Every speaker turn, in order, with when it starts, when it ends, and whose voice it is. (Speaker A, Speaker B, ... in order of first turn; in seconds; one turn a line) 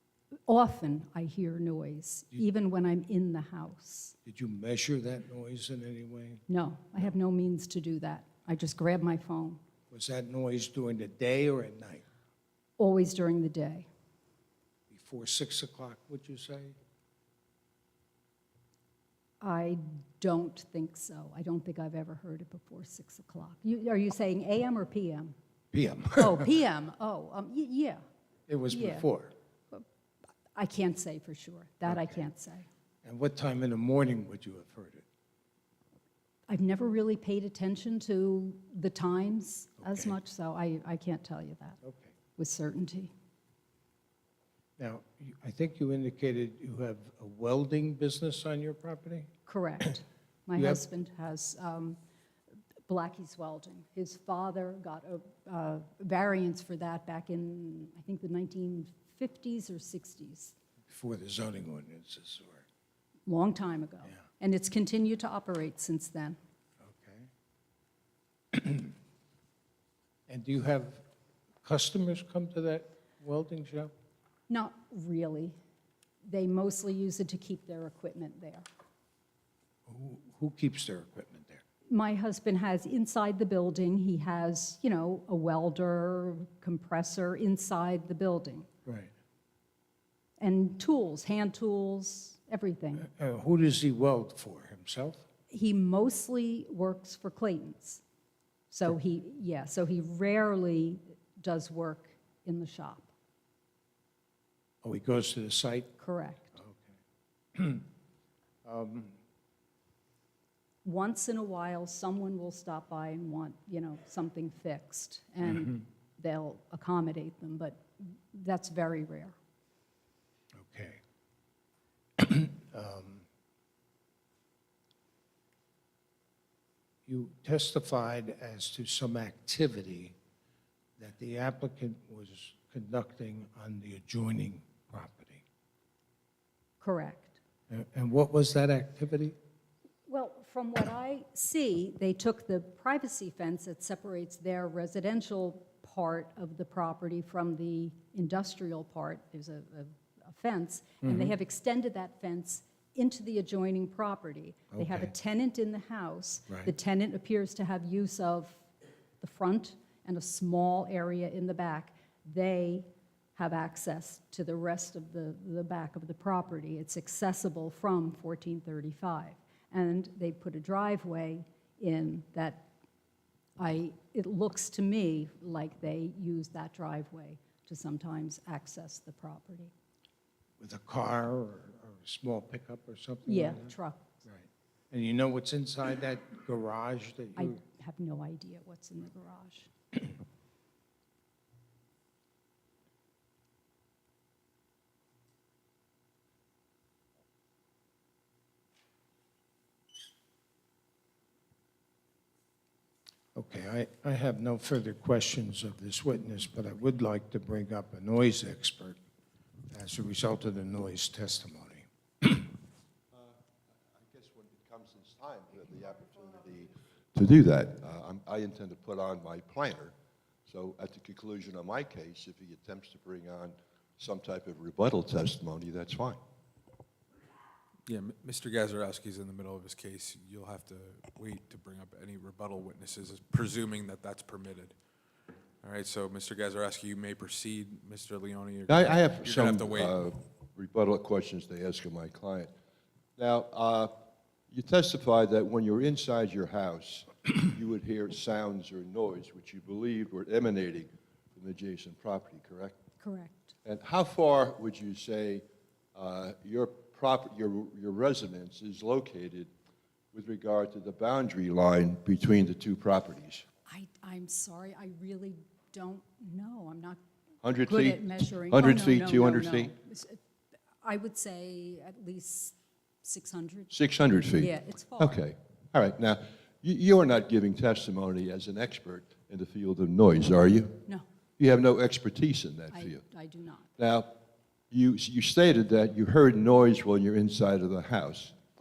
Speaker A: 0.5-4.1
Speaker B: 4.2-6.4
Speaker A: 6.5-9.6
Speaker B: 9.9-12.0
Speaker A: 12.8-13.9
Speaker B: 14.9-16.8
Speaker A: 19.4-25.4
Speaker B: 25.7-26.5
Speaker A: 26.2-28.0
Speaker B: 28.5-29.4
Speaker A: 28.7-29.1
Speaker A: 30.5-32.7
Speaker B: 31.9-32.2
Speaker B: 33.0-35.0
Speaker A: 36.5-41.8
Speaker B: 39.8-40.2
Speaker B: 41.8-42.1
Speaker A: 42.4-43.1
Speaker B: 44.8-49.3
Speaker A: 49.5-52.0
Speaker B: 50.5-50.8
Speaker A: 52.9-60.5
Speaker B: 60.9-62.6
Speaker A: 63.3-66.4
Speaker B: 66.8-67.3
Speaker B: 68.5-68.9
Speaker B: 70.3-71.0
Speaker B: 71.6-73.9
Speaker A: 74.5-75.6
Speaker A: 76.2-78.7
Speaker B: 79.9-81.6
Speaker A: 81.9-88.7
Speaker B: 88.8-89.1
Speaker A: 90.4-93.1
Speaker B: 93.0-95.2
Speaker A: 95.5-98.0
Speaker A: 98.7-103.1
Speaker B: 104.8-105.9
Speaker A: 106.0-106.5
Speaker B: 106.5-107.0
Speaker B: 107.5-107.8
Speaker B: 108.6-109.2
Speaker A: 110.8-119.3
Speaker B: 120.5-121.0
Speaker B: 122.2-123.3
Speaker B: 127.0-130.2
Speaker B: 131.0-135.4
Speaker A: 136.8-137.4
Speaker B: 137.7-139.4
Speaker A: 140.1-158.6
Speaker B: 151.0-151.3
Speaker B: 154.7-155.1
Speaker A: 159.2-172.7
Speaker A: 173.6-179.7
Speaker B: 180.6-187.6
Speaker A: 183.3-184.1
Speaker A: 187.4-189.7
Speaker B: 203.3-209.0
Speaker B: 209.7-212.5
Speaker C: 213.1-213.4
Speaker C: 213.9-219.9
Speaker C: 220.5-226.2
Speaker D: 227.9-234.8
Speaker D: 235.6-240.0
Speaker C: 238.7-242.5
Speaker C: 243.2-243.9
Speaker C: 244.5-252.8
Speaker A: 253.0-253.5
Speaker C: 253.7-259.5
Speaker C: 260.1-263.4
Speaker A: 263.7-267.0
Speaker C: 267.4-269.7
Speaker A: 267.6-270.2
Speaker A: 270.8-273.7
Speaker C: 273.7-280.8
Speaker A: 274.4-275.2
Speaker C: 281.4-283.0
Speaker A: 282.7-283.7
Speaker C: 283.8-284.2
Speaker C: 284.7-288.3